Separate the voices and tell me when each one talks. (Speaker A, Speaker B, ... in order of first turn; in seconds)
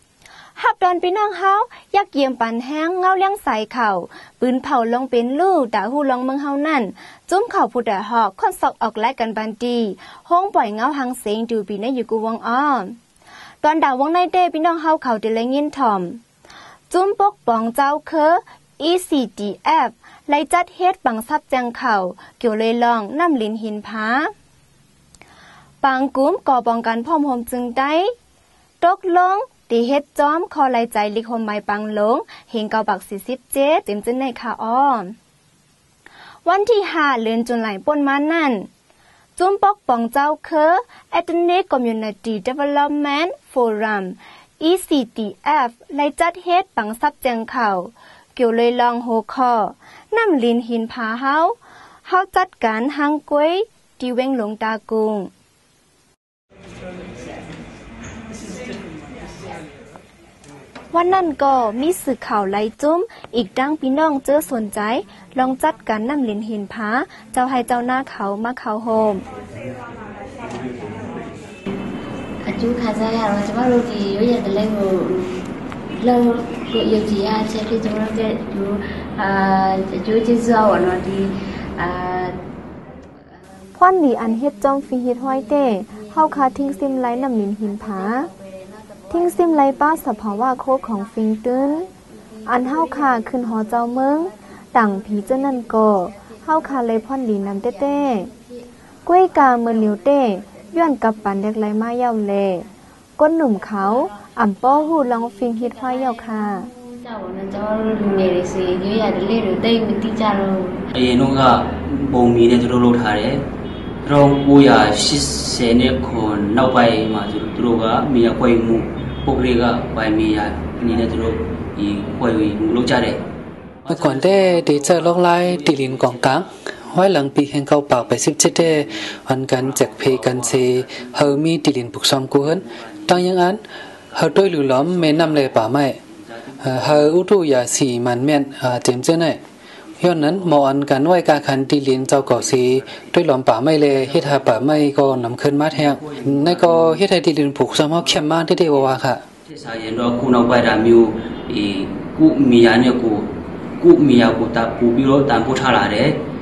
Speaker A: 0.6-12.9, 13.6-16.2, 16.9-24.3, 25.8-28.1, 28.8-35.1, 36.4-38.7, 39.4-55.3, 60.9-69.2, 83.8-88.3, 89.1-91.9, 92.5-98.3, 99.0-106.7
Speaker B: 72.4-75.3, 76.0-82.3, 107.0-110.8
Speaker C: 110.9-113.4, 114.0-123.2, 123.9-126.4, 128.0-128.9, 129.6-131.4, 132.3-133.2, 134.2-137.1, 140.0-140.6, 142.2-143.1, 143.9-144.7, 145.7-147.0, 147.7-148.9, 149.4-153.3, 153.8-156.2
Speaker D: 123.9-133.6, 134.1-136.0, 136.6-139.4, 140.0-149.2